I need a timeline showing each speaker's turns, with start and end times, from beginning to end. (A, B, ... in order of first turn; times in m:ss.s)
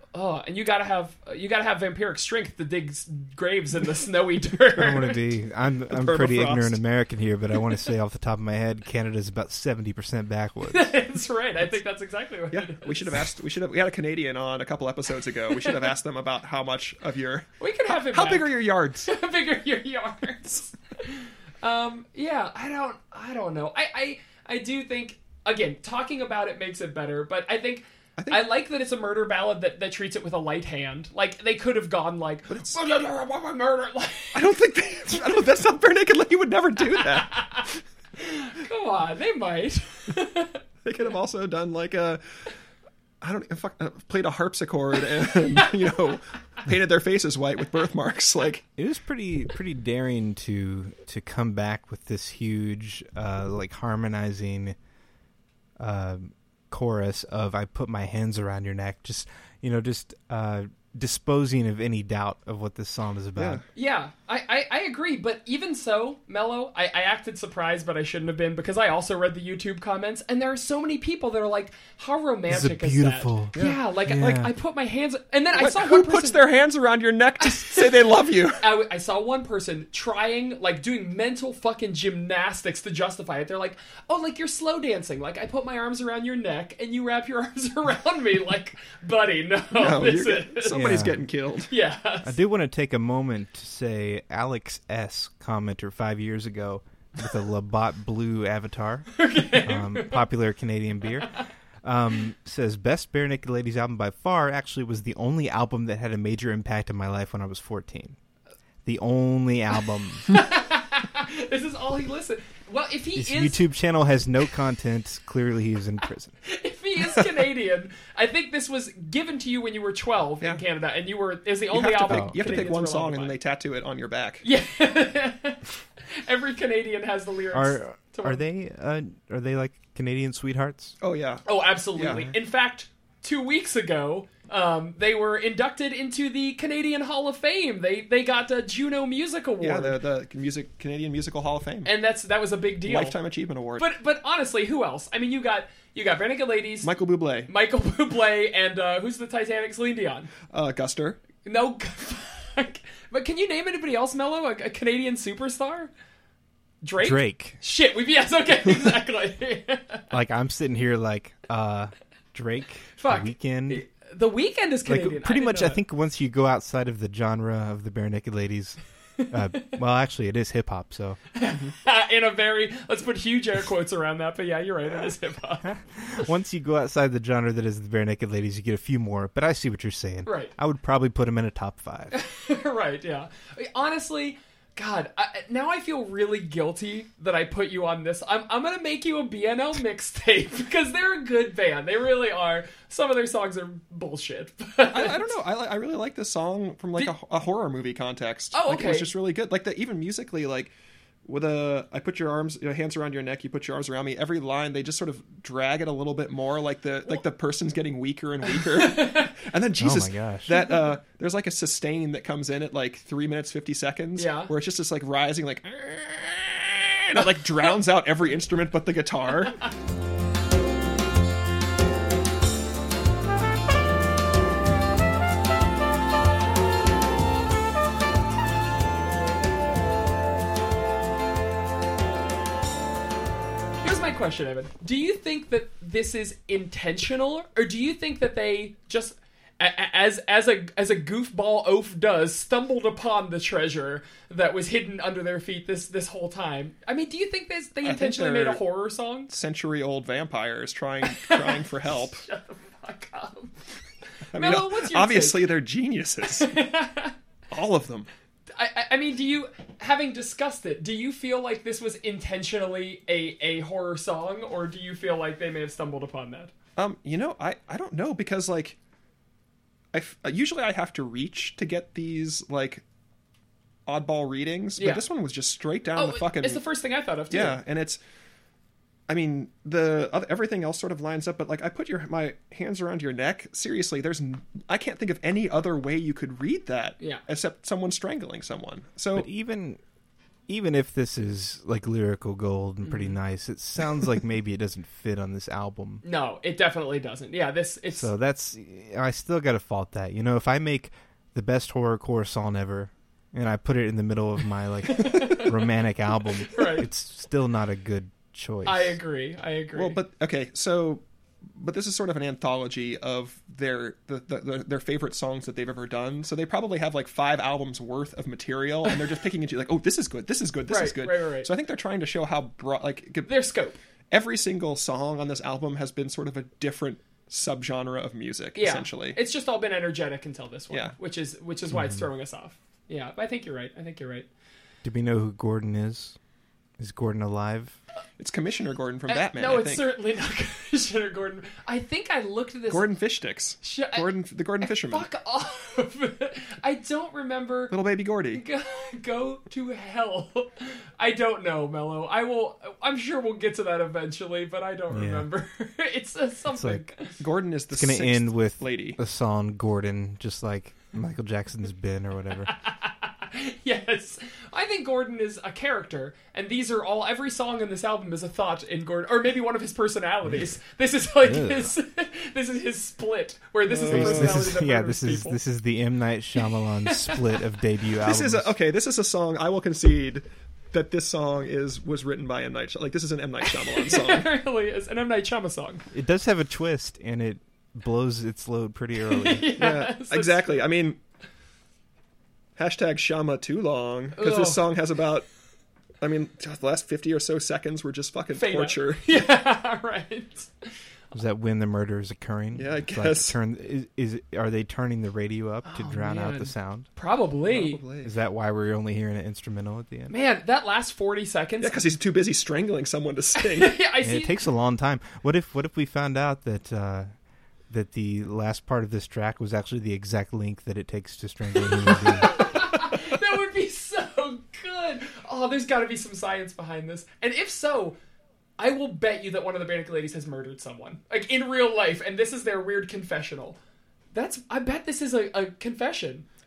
0:00.1-0:05.2 A
0:04.7-0:10.9 B
0:05.9-0:06.8 C
0:10.7-0:13.3 A
0:12.5-0:19.1 C
0:15.5-0:15.9 A
0:17.6-0:34.5 A
0:28.2-0:28.5 C
0:32.5-0:32.8 C
0:34.3-0:37.8 C
0:37.0-0:40.6 A
0:40.8-0:42.2 C
0:43.2-0:48.6 C
0:48.8-0:54.8 B
0:55.8-1:03.6 B
1:03.4-1:03.6 C
1:03.8-1:16.4 A
1:12.5-1:14.5 B
1:13.5-1:13.8 C
1:15.6-1:18.6 C
1:17.4-1:18.0 A
1:18.6-1:31.0 A
1:29.7-1:31.7 C
1:30.7-1:31.2 B
1:31.7-1:32.4 A
1:32.2-1:48.2 B
1:39.1-1:40.2 A
1:48.8-1:50.3 B
1:50.3-1:53.6 A
1:53.2-1:56.4 B
1:56.4-2:03.4 A
2:01.7-2:04.4 C
2:02.1-2:02.4 B
2:04.4-2:08.4 A
2:07.5-2:11.0 B
2:11.0-2:12.3 C
2:11.5-2:20.0 A
2:19.6-2:21.9 C
2:21.9-2:23.2 A
2:22.8-2:23.9 C
2:23.8-2:26.9 A
2:26.8-2:27.5 C
2:27.5-2:30.3 A
2:30.5-2:31.2 C
2:31.4-2:35.9 A
2:36.8-2:40.0 A
2:37.0-2:37.6 B
2:40.1-2:43.8 B
2:43.0-2:45.8 A
2:44.9-2:48.8 B
2:49.2-2:49.6 A
2:49.3-2:51.2 B
2:51.3-2:55.7 A
2:55.6-3:02.2 B
3:00.3-3:00.5 A
3:02.1-3:15.3 A
3:14.9-3:20.7 C
3:18.5-3:19.1 A
3:21.2-3:39.6 C
3:28.6-3:29.3 A
3:29.8-3:30.5 B
3:34.2-3:34.5 A
3:53.8-4:09.3 A
4:07.8-4:08.6 C
4:09.3-4:12.2 C
4:11.1-4:13.5 A
4:14.3-4:16.5 C
4:14.3-4:15.5 A
4:16.2-4:17.2 A
4:17.5-4:18.1 C
4:18.5-4:26.5 A
4:26.8-4:28.8 C
4:29.9-4:32.8 C
4:33.9-4:36.6 C
4:34.8-4:35.0 A
4:36.0-4:37.6 A
4:37.3-4:38.0 C
4:39.1-4:49.3 C
4:49.2-4:49.8 B
4:50.5-4:56.0 B
4:52.8-4:53.2 A
4:56.0-4:58.1 A
4:57.9-5:09.0 B
5:04.9-5:05.5 A
5:06.5-5:06.9 A
5:08.6-5:10.0 A
5:09.7-5:23.3 C
5:20.7-5:21.5 A
5:23.3-5:23.8 A
5:24.1-5:29.2 C
5:28.6-5:34.3 A
5:30.7-5:31.0 C
5:31.7-5:32.1 B
5:34.8-5:36.2 B
5:36.8-5:37.8 B
5:38.2-5:39.8 C
5:39.1-5:42.9 A
5:42.7-5:45.1 C
5:43.6-5:44.1 A
5:44.6-5:47.7 A
5:47.7-5:48.4 C
5:48.3-5:57.2 A
5:54.9-5:55.3 B
5:56.5-5:56.8 B
5:57.2-5:59.0 C
5:57.7-6:02.5 B
6:02.5-6:15.4 A
6:11.2-6:11.7 B
6:13.7-6:14.5 C
6:13.9-6:18.5 B
6:16.8-6:17.3 A
6:18.0-6:24.3 C
6:23.5-6:25.8 A
6:25.9-6:29.5 B
6:29.0-6:30.6 A
6:29.6-6:31.0 C
6:32.6-6:35.3 C
6:34.2-6:34.6 A
6:36.0-6:39.2 C
6:38.4-6:40.7 A
6:41.1-6:46.9 B
6:42.6-6:43.4 C
6:45.7-6:47.8 A
6:47.5-6:48.1 C
6:48.0-6:50.1 B
6:50.1-6:51.8 A
6:51.6-6:53.8 C
6:53.4-6:54.4 A
6:54.0-6:57.1 B
6:57.7-7:02.5 B
7:01.8-7:08.0 A
7:08.6-7:13.6 A
7:14.1-7:16.3 A